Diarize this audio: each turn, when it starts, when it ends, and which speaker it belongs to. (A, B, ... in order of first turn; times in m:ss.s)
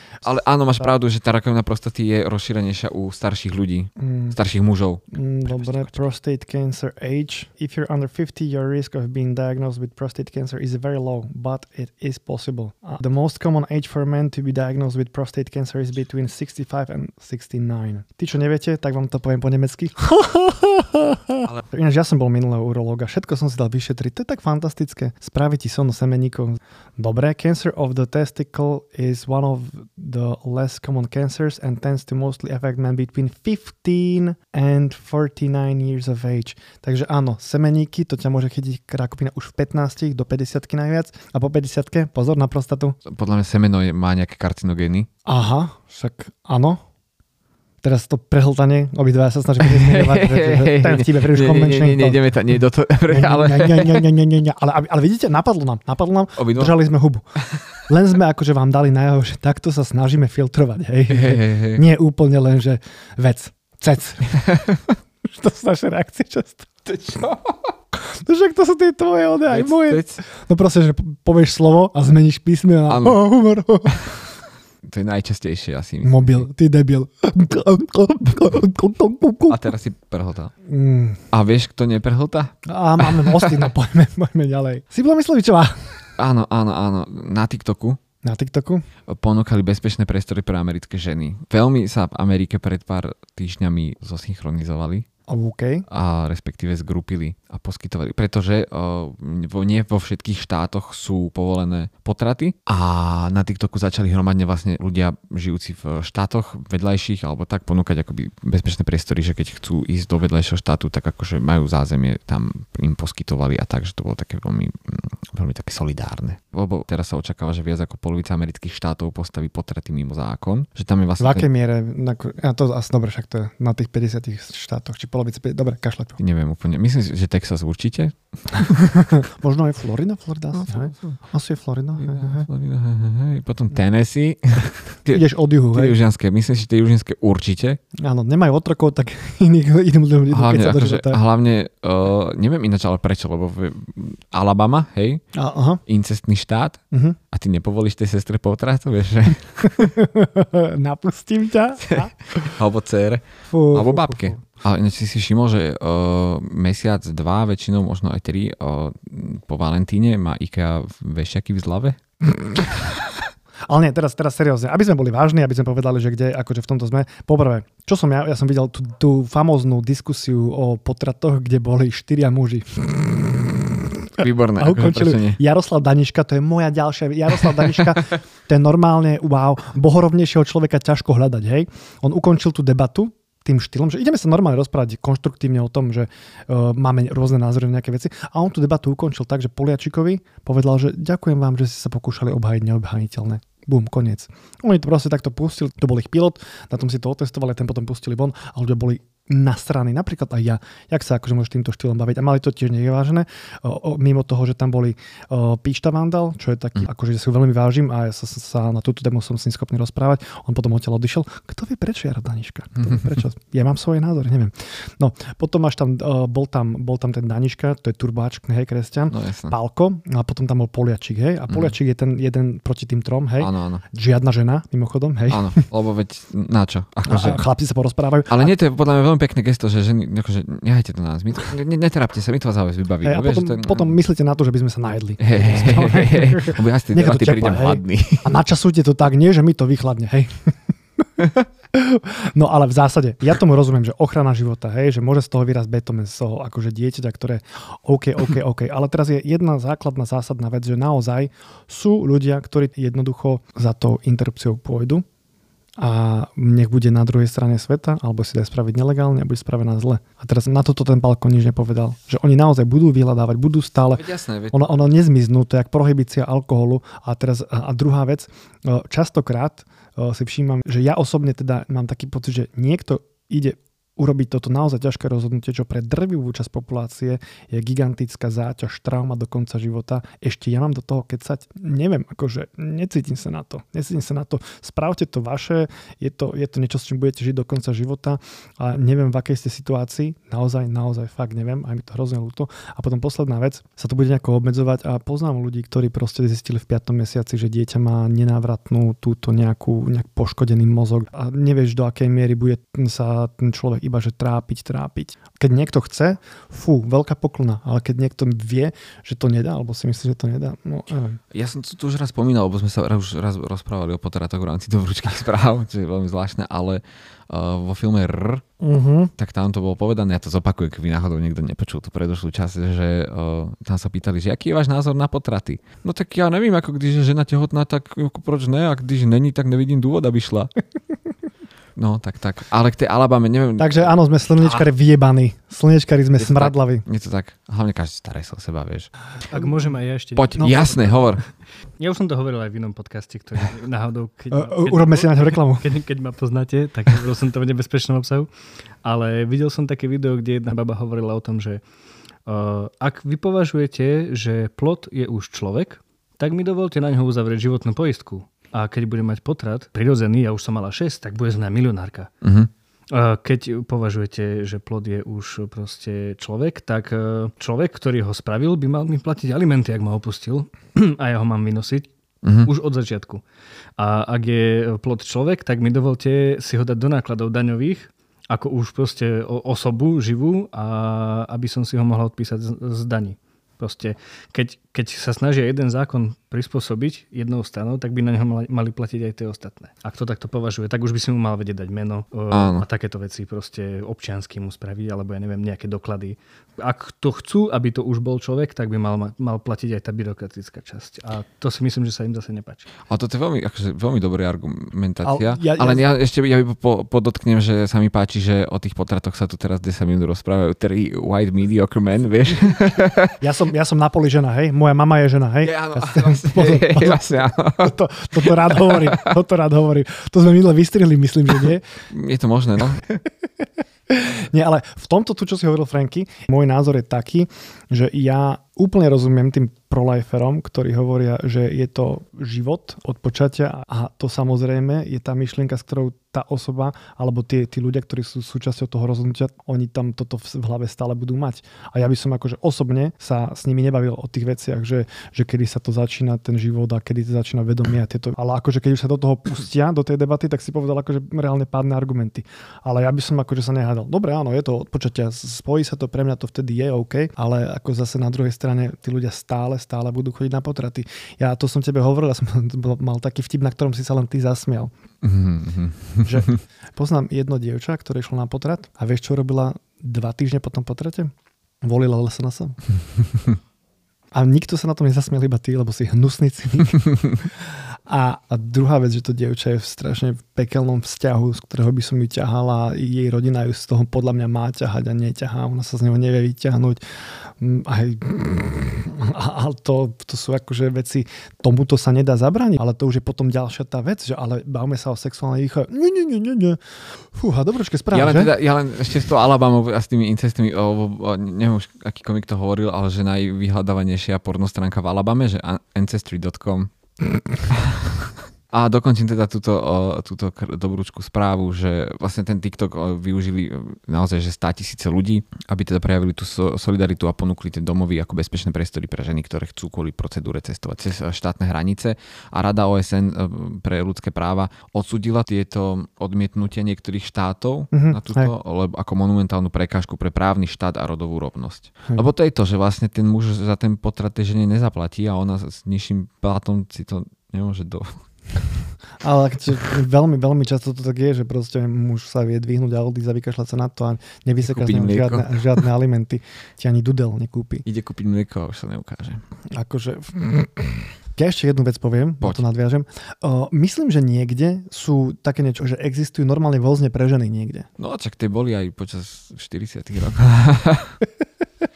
0:00.2-0:06.1 A
0:04.0-0:04.4 B
0:05.1-0:43.0 B
0:43.0-0:45.1 A
0:45.2-0:46.8 B
0:47.8-0:52.3 B
0:49.6-0:54.1 A
0:53.1-0:57.2 B
0:56.4-0:56.8 A
0:57.4-0:57.7 A
0:57.9-1:04.6 B
1:01.1-1:01.8 A
1:05.2-1:07.0 B
1:06.9-1:07.6 A
1:08.2-1:14.2 B
1:09.5-1:10.2 A
1:12.9-1:13.2 A
1:14.8-1:16.5 A
1:16.0-1:19.7 B
1:19.5-1:20.5 A
1:20.7-1:21.2 B
1:21.3-1:23.7 A
1:22.7-1:26.1 B
1:26.2-1:28.0 A
1:28.2-1:28.8 B
1:29.1-1:35.0 A
1:35.3-1:35.8 B
1:35.9-2:01.5 A
2:01.2-2:06.2 B
2:06.2-2:09.1 A
2:09.0-2:12.5 B
2:10.5-2:11.2 A
2:12.0-2:17.8 A
2:15.1-2:16.0 B
2:18.0-2:21.2 B
2:20.3-2:25.2 A
2:25.3-2:25.8 B
2:25.8-2:26.8 A
2:26.9-2:27.2 B
2:27.3-2:29.9 A
2:29.7-2:32.5 B
2:31.9-2:42.0 A
2:33.5-2:34.4 B
2:43.7-3:45.6 B
2:54.2-2:55.4 A
3:39.1-3:39.5 A
3:41.5-3:41.7 A
3:43.4-3:43.8 A
3:45.3-3:47.4 A
3:47.0-3:48.5 B
3:48.3-3:54.0 A
3:53.0-4:00.6 B
3:55.2-3:58.4 A
4:01.7-4:15.0 B
4:15.8-5:11.2 B
4:23.9-4:24.6 A
5:11.3-5:18.4 A
5:18.6-5:19.1 B
5:19.2-5:30.5 A
5:31.8-5:34.7 A
5:33.6-5:36.8 B
5:36.2-5:38.9 A
5:39.2-5:48.3 C
5:40.1-5:41.2 A
5:44.3-5:45.7 B
5:48.8-5:51.6 C
5:52.2-6:02.1 C
6:02.2-6:02.5 A
6:02.9-6:11.9 C
6:12.2-6:12.5 A
6:12.4-6:13.2 C
6:13.8-6:42.7 C
6:32.3-6:32.6 A
6:42.9-6:53.2 A
6:45.0-6:45.8 B
6:53.2-7:01.7 B
6:55.4-6:59.1 A
7:01.3-7:02.9 A
7:03.9-7:44.7 B
7:45.0-7:46.2 A
7:46.0-7:51.1 B
7:51.6-7:52.6 B
7:54.1-8:06.8 B
8:07.4-8:18.3 B
8:17.9-8:26.7 A
8:27.5-8:58.4 A
8:47.7-8:48.3 B
8:59.0-9:07.6 B
9:04.4-9:05.4 A
9:07.6-9:09.2 A
9:09.5-9:17.7 B
9:17.8-9:21.0 A